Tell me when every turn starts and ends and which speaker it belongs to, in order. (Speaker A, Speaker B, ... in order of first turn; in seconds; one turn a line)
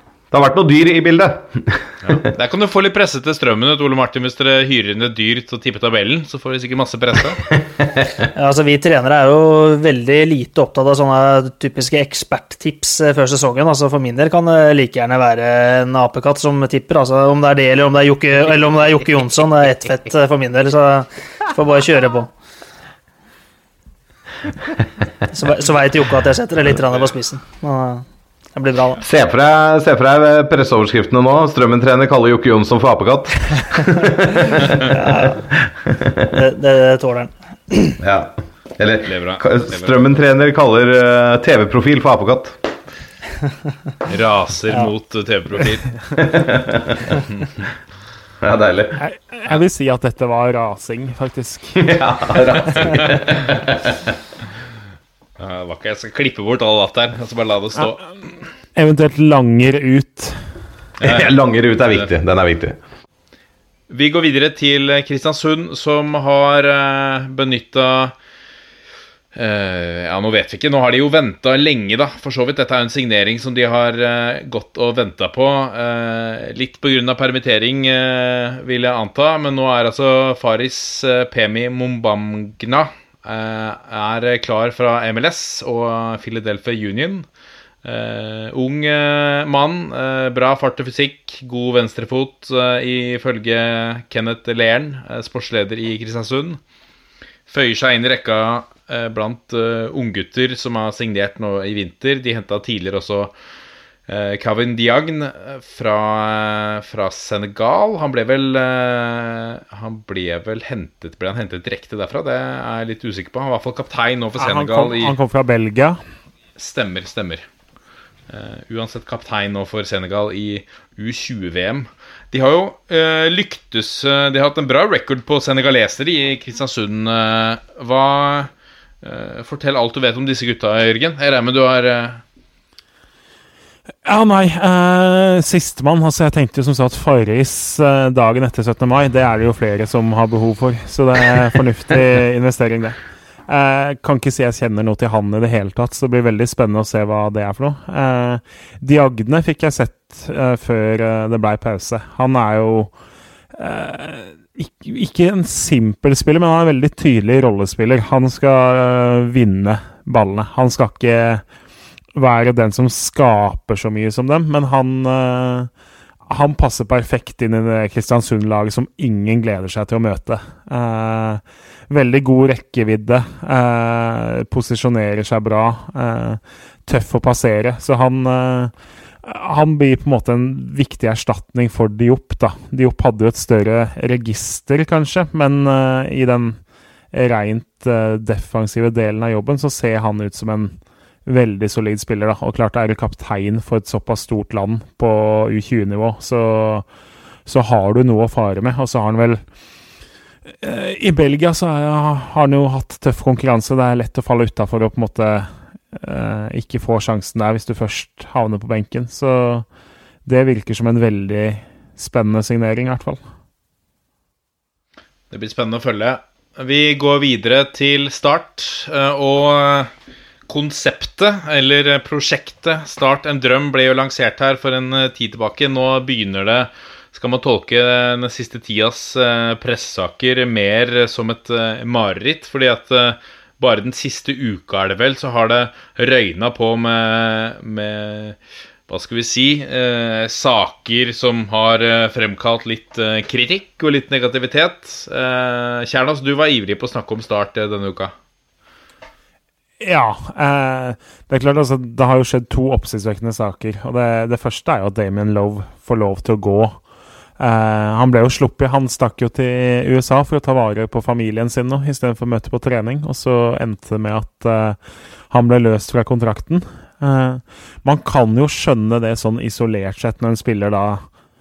Speaker A: 0.3-2.3
Speaker B: 2.0-7.4
Speaker A: 7.8-8.1
Speaker C: 8.3-22.3
Speaker C: 25.3-28.1
Speaker C: 28.6-29.0
Speaker A: 29.0-36.3
Speaker C: 34.9-35.4
Speaker C: 36.3-38.0
Speaker A: 38.0-42.6
Speaker B: 39.0-40.1
Speaker B: 44.1-45.9
Speaker A: 46.1-47.2
Speaker A: 48.4-49.0
Speaker D: 49.0-52.0
Speaker A: 51.8-54.0
Speaker B: 55.4-58.0
Speaker D: 58.8-60.4
Speaker B: 61.0-62.1
Speaker A: 61.0-62.8
Speaker B: 63.9-68.1
Speaker B: 69.3-87.3
Speaker B: 87.8-96.6
Speaker B: 97.5-103.3
Speaker B: 104.1-115.1
Speaker D: 114.4-116.0
Speaker B: 116.6-117.5
Speaker B: 118.3-128.5
Speaker B: 129.0-132.2
Speaker D: 134.1-152.9
Speaker D: 153.5-161.4
Speaker D: 162.2-165.7
Speaker D: 166.3-186.6
Speaker D: 187.1-190.8
Speaker D: 191.3-196.9
Speaker D: 197.5-199.4
Speaker D: 200.5-209.7
Speaker D: 210.2-213.2
Speaker B: 215.3-219.9
Speaker B: 220.5-238.4
Speaker B: 238.9-248.1
Speaker D: 249.8-256.8
Speaker D: 257.4-264.8
Speaker D: 265.3-271.1